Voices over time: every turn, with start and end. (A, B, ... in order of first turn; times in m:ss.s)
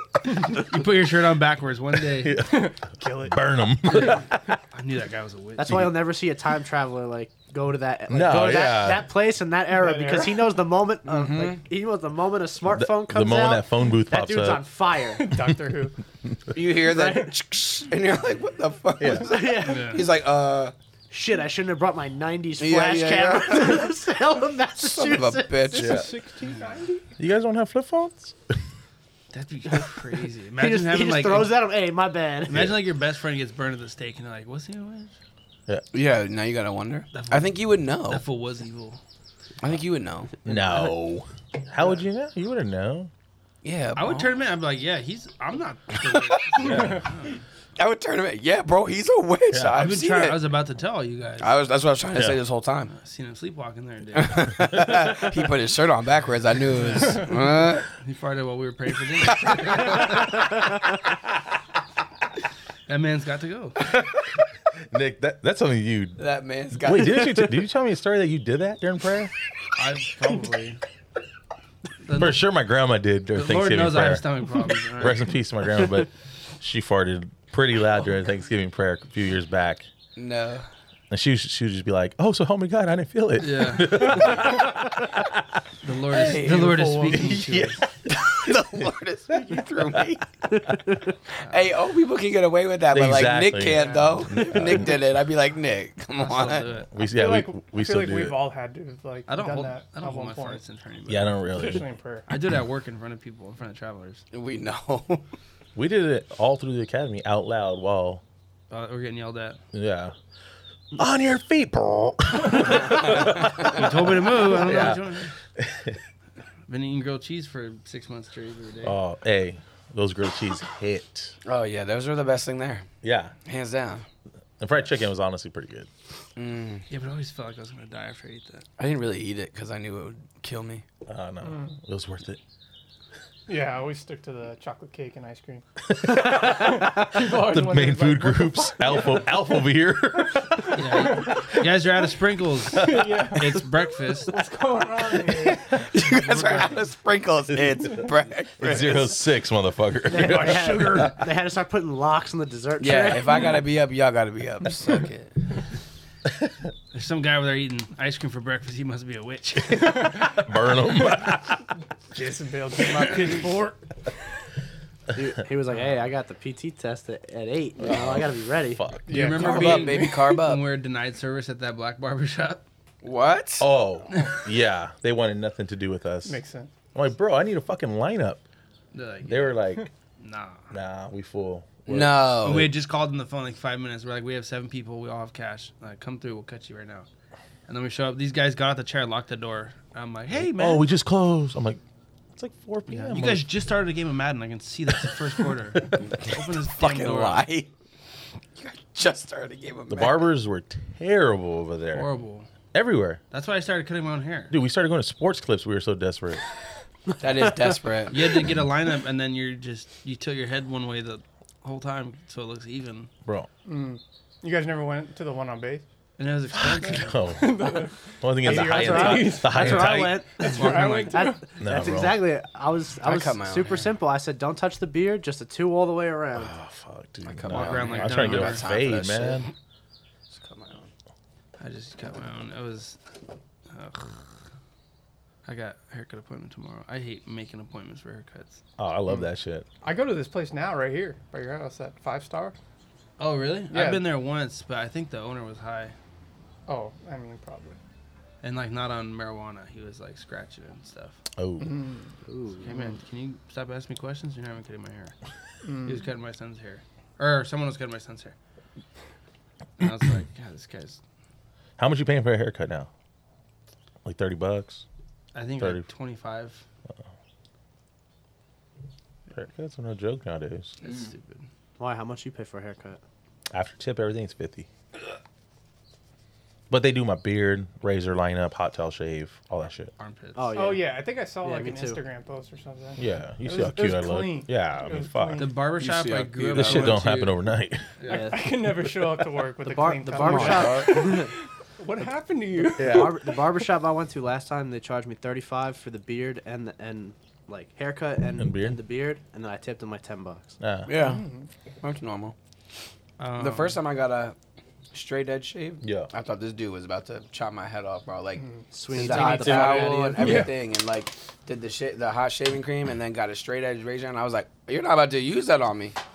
0:00.4-0:02.4 A
0:02.2-0:04.3 B
0:02.4-0:03.4 C
0:03.9-0:05.9 A
0:05.6-0:15.3 D
0:08.1-0:09.1 B
0:09.7-0:10.5 C
0:11.1-0:11.6 E
0:12.7-0:14.6 B
0:15.2-0:16.0 C
0:16.5-0:20.7 E
0:16.8-0:17.4 D
0:19.0-0:19.3 B
0:19.1-0:20.1 D
0:19.6-0:20.1 A
0:21.1-0:25.7 D
0:22.6-0:23.9 E
0:24.8-0:26.0 E
0:25.6-0:27.1 C
0:25.8-0:26.1 B
0:27.2-0:28.4 B
0:29.3-0:31.6 A
0:30.6-0:32.6 D
0:32.5-0:35.2 A
0:32.5-0:32.8 B
0:35.9-0:38.2 E
0:37.1-0:39.0 A
0:39.6-0:40.5 E
0:40.4-0:43.1 B
0:43.6-0:44.4 E
0:44.0-0:47.4 A
0:46.6-0:47.1 B
0:47.8-0:50.5 E
0:49.5-0:49.8 B
0:49.7-0:51.6 A
0:51.4-0:52.9 E
0:52.1-0:52.4 B
0:52.9-0:54.7 A
0:54.1-0:57.9 E
0:56.8-0:57.3 A
0:58.0-1:00.4 A
0:59.4-1:00.1 E
1:02.9-1:03.8 A
1:04.9-1:06.2 B
1:06.2-1:07.6 E
1:06.7-1:09.3 B
1:09.8-1:10.8 A
1:12.0-1:12.4 A
1:12.2-1:19.9 B
1:13.3-1:15.3 A
1:20.2-1:20.7 E
1:21.1-1:25.2 B
1:23.4-1:24.4 A
1:25.8-1:27.8 A
1:26.1-1:26.7 E
1:26.2-1:26.5 B
1:26.4-1:27.2 C
1:27.0-1:28.8 B
1:28.1-1:30.2 E
1:30.5-1:31.0 D
1:31.4-1:31.6 A
1:31.5-1:36.6 E
1:32.9-1:35.0 B
1:36.1-1:36.9 A
1:36.9-1:38.4 B
1:37.0-1:40.6 C
1:39.3-1:41.4 A
1:41.1-1:41.9 B
1:41.5-1:42.3 C
1:42.3-1:44.2 A
1:44.3-1:45.2 E
1:45.8-1:48.2 B
1:48.7-1:49.6 A
1:49.7-1:50.2 B
1:51.0-1:55.0 B
1:53.6-1:55.3 A
1:55.6-1:56.0 B
1:56.7-1:59.0 A
1:58.8-2:01.4 B
2:01.4-2:02.9 E
2:03.0-2:03.4 B
2:03.4-2:04.1 E
2:04.6-2:05.9 B
2:06.4-2:06.9 E
2:06.9-2:08.7 A
2:08.8-2:10.8 E
2:11.1-2:12.4 B
2:11.4-2:11.8 C
2:13.5-2:15.6 C
2:16.0-2:21.2 B
2:16.1-2:16.5 D
2:16.2-2:19.3 C
2:20.4-2:21.6 C
2:20.8-2:24.4 A
2:22.8-2:23.6 C
2:22.8-2:23.3 B
2:24.3-2:25.9 C
2:25.5-2:29.1 E
2:26.0-2:26.8 A
2:28.6-2:31.1 B
2:30.1-2:33.6 D
2:30.1-2:31.2 C
2:32.8-2:35.4 E
2:36.9-2:40.3 A
2:39.8-2:40.4 C
2:40.2-2:41.7 B
2:42.1-2:43.9 C
2:45.1-2:48.8 D
2:47.8-2:49.4 B
2:49.1-2:50.2 C
2:49.1-2:52.6 A
2:49.2-2:50.6 E
2:53.0-2:53.7 E
2:53.6-2:56.4 B
2:56.2-2:56.7 C
2:56.9-2:58.4 B
2:58.9-2:59.6 A
2:59.3-2:59.9 B
3:00.2-3:00.7 A
3:00.7-3:02.7 B
3:01.9-3:02.7 E
3:02.4-3:07.1 A
3:07.7-3:10.9 A
3:10.4-3:11.8 B
3:12.4-3:13.5 B
3:12.9-3:17.4 A
3:15.8-3:16.0 B
3:16.3-3:17.7 E
3:18.6-3:20.3 E
3:19.9-3:22.1 B
3:21.9-3:22.5 A
3:22.7-3:23.2 B
3:23.3-3:24.6 A
3:24.5-3:26.4 B
3:27.2-3:28.3 E
3:27.5-3:27.8 D
3:28.1-3:33.1 A
3:33.7-3:35.8 C
3:36.2-3:37.2 A
3:36.6-3:37.6 B
3:36.9-3:41.6 C
3:38.2-3:40.2 B
3:38.4-3:46.5 D
3:40.4-3:41.3 A
3:41.6-3:42.3 B
3:43.0-3:43.9 E
3:46.4-3:49.5 B
3:47.2-3:49.5 E
3:47.5-3:48.7 A
3:50.3-3:50.9 E
3:51.6-3:53.0 A
3:53.7-3:54.3 A
3:55.4-3:58.6 A
3:58.8-3:59.7 B
3:59.8-4:02.6 C
4:03.2-4:06.0 A
4:03.7-4:04.1 C
4:06.7-4:07.8 C
4:08.4-4:11.2 A
4:11.4-4:11.8 B
4:11.6-4:12.1 C
4:12.3-4:12.7 D
4:12.6-4:15.2 A
4:15.6-4:16.0 C
4:15.8-4:18.4 A
4:19.8-4:21.0 A
4:21.8-4:22.9 B
4:24.0-4:24.8 B
4:25.3-4:26.6 A
4:25.6-4:25.8 B
4:29.3-4:30.8 B
4:30.8-4:31.5 A
4:31.8-4:33.0 D
4:33.5-4:34.7 B
4:36.7-4:39.9 B
4:40.0-4:40.5 A
4:40.4-4:42.0 D
4:40.5-4:45.6 C
4:43.0-4:45.5 B
4:45.4-4:47.4 A
4:45.8-4:47.1 E
4:46.5-4:47.9 B
4:48.0-4:48.3 A
4:48.1-4:48.5 D
4:48.1-4:53.2 C
4:49.6-4:51.3 D
4:50.2-4:51.2 E
4:52.8-4:53.2 B
4:52.8-5:00.6 D
4:58.4-4:58.8 B
5:00.6-5:00.9 B
5:00.9-5:01.3 E
5:00.9-5:01.5 C
5:01.8-5:02.4 E
5:03.2-5:03.8 A
5:03.4-5:04.4 E
5:04.9-5:16.0 E
5:05.8-5:06.1 B
5:08.4-5:08.6 C
5:08.7-5:10.5 D
5:09.0-5:10.1 A
5:09.5-5:10.5 B
5:10.2-5:10.5 C